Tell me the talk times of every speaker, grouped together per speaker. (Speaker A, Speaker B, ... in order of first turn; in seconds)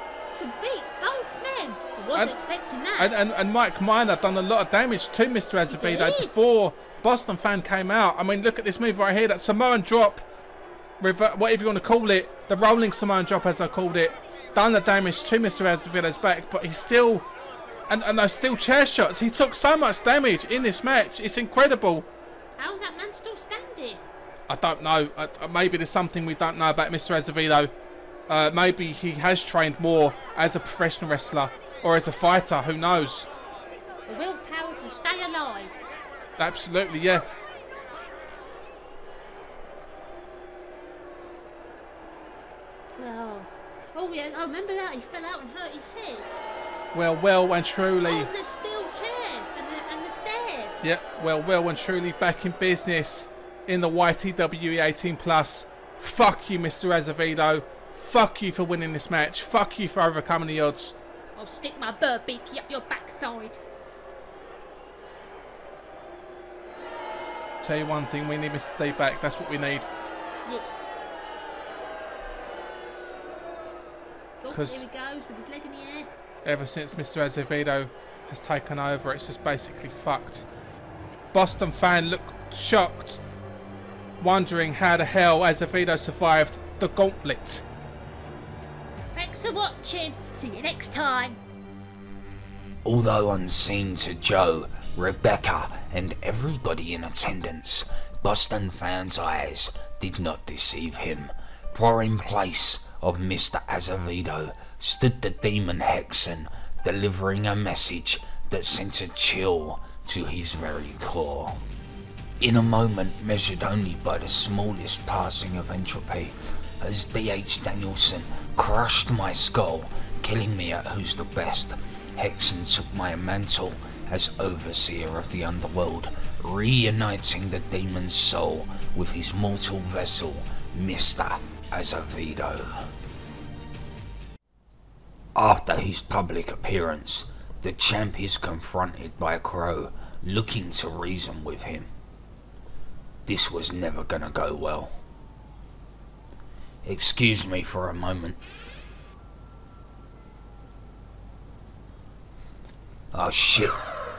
Speaker A: 0.3-3.1, 5.7-6.5, 22.6-24.0, 34.0-35.8, 43.0-46.4, 48.0-50.9, 61.4-63.6, 70.4-70.8, 74.4-76.1, 89.1-91.4
Speaker B: 2.1-2.4, 3.0-10.2, 11.0-17.3, 17.9-22.1, 24.5-27.7, 28.3-33.3, 36.4-37.3, 46.9-48.3, 50.8-60.9, 67.6-69.9, 74.5-74.8, 76.4-80.5, 81.3-83.2, 84.2-87.6
Speaker C: 92.8-111.6, 112.4-132.9, 135.3-141.9, 143.2-144.9, 146.8-148.4, 153.1-153.8